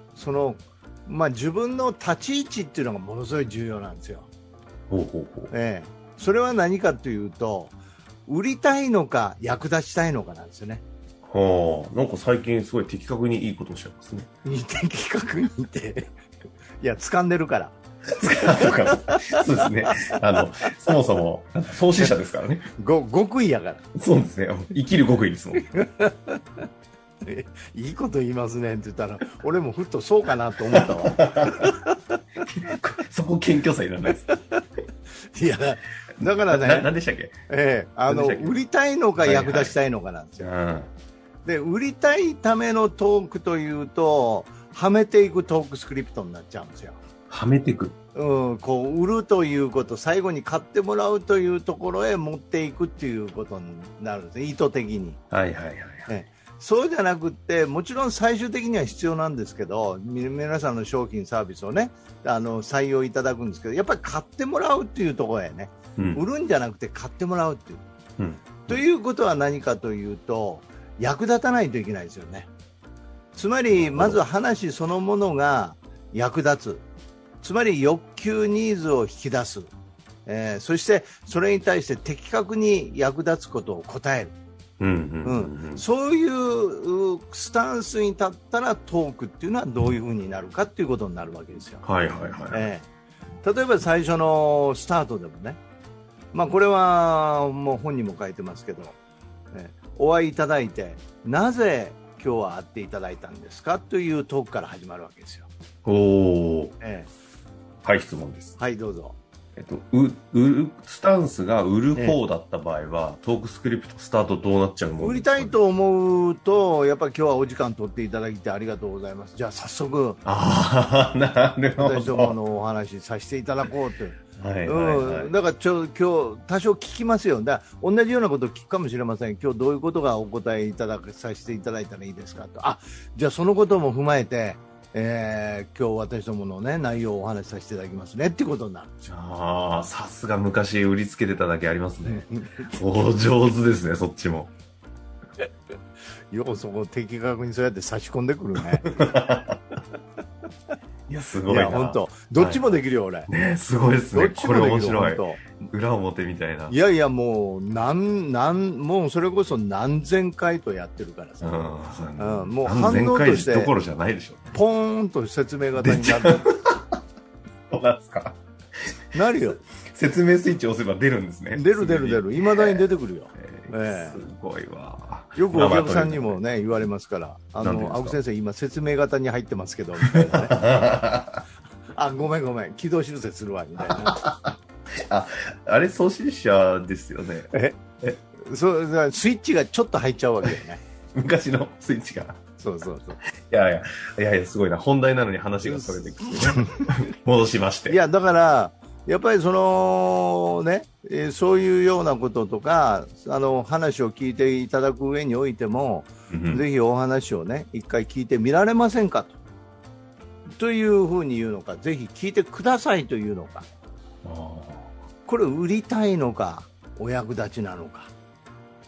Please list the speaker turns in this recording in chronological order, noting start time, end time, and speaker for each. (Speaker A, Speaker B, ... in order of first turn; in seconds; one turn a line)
Speaker A: 0.1-4.3
Speaker B: 4.9-5.5
Speaker A: 5.5-10.8
Speaker B: 11.2-14.3
Speaker A: 14.4-16.1
Speaker A: 16.8-17.8
Speaker B: 18.1-22.7
Speaker A: 18.5-20.2
Speaker A: 22.8-23.8
Speaker B: 23.9-25.7
Speaker A: 25.7-26.7
Speaker A: 27.2-31.9
Speaker B: 30.7-31.8
Speaker B: 32.4-34.3
Speaker A: 34.2-34.6
Speaker A: 35.3-36.9
Speaker B: 36.5-37.3
Speaker A: 37.5-40.5
Speaker B: 38.1-38.6
Speaker B: 39.2-39.8
Speaker B: 40.4-40.9
Speaker A: 41.4-47.0
Speaker B: 47.3-48.0
Speaker A: 48.1-55.2
Speaker B: 55.3-56.1
Speaker A: 56.1-67.8
Speaker B: 66.0-66.2
Speaker B: 68.2-68.8
Speaker A: 68.7-72.5
Speaker A: 73.3-76.8
Speaker B: 73.7-74.2
Speaker A: 77.4-79.7
Speaker A: 80.2-84.3
Speaker B: 84.8-85.8
Speaker A: 85.2-91.8
Speaker B: 91.8-92.7
Speaker A: 92.5-92.9
Speaker A: 93.4-95.6
Speaker A: 96.3-99.0
Speaker A: 99.5-105.5
Speaker B: 105.8-106.7
Speaker A: 106.8-107.1
Speaker B: 107.8-108.6
Speaker A: 108.6-109.2
Speaker B: 109.5-115.5
Speaker A: 115.0-120.2
Speaker B: 120.2-122.4
Speaker A: 121.8-139.1
Speaker B: 124.4-125.3
Speaker B: 139.1-144.5
Speaker A: 142.1-142.7
Speaker A: 146.3-149.1
Speaker B: 148.8-149.6
Speaker B: 151.1-152.7
Speaker A: 151.5-153.3
Speaker B: 153.3-156.8
Speaker A: 154.1-155.4
Speaker A: 156.7-163.7
Speaker B: 161.4-164.5
Speaker A: 164.5-166.5
Speaker B: 165.8-167.0
Speaker B: 167.7-168.4
Speaker A: 169.1-169.6
Speaker B: 169.9-176.4
Speaker A: 171.5-174.2
Speaker A: 175.3-180.6
Speaker B: 177.6-178.2
Speaker B: 180.0-181.4
Speaker A: 181.9-184.2
Speaker B: 184.0-187.5
Speaker A: 187.5-187.8
Speaker A: 188.4-190.8
Speaker B: 191.1-192.4
Speaker A: 192.6-193.2
Speaker B: 193.4-198.0
Speaker A: 195.6-196.8
Speaker A: 197.9-209.4
Speaker B: 206.3-206.7
Speaker A: 210.5-213.7
Speaker B: 214.2-214.9
Speaker A: 215.2-218.1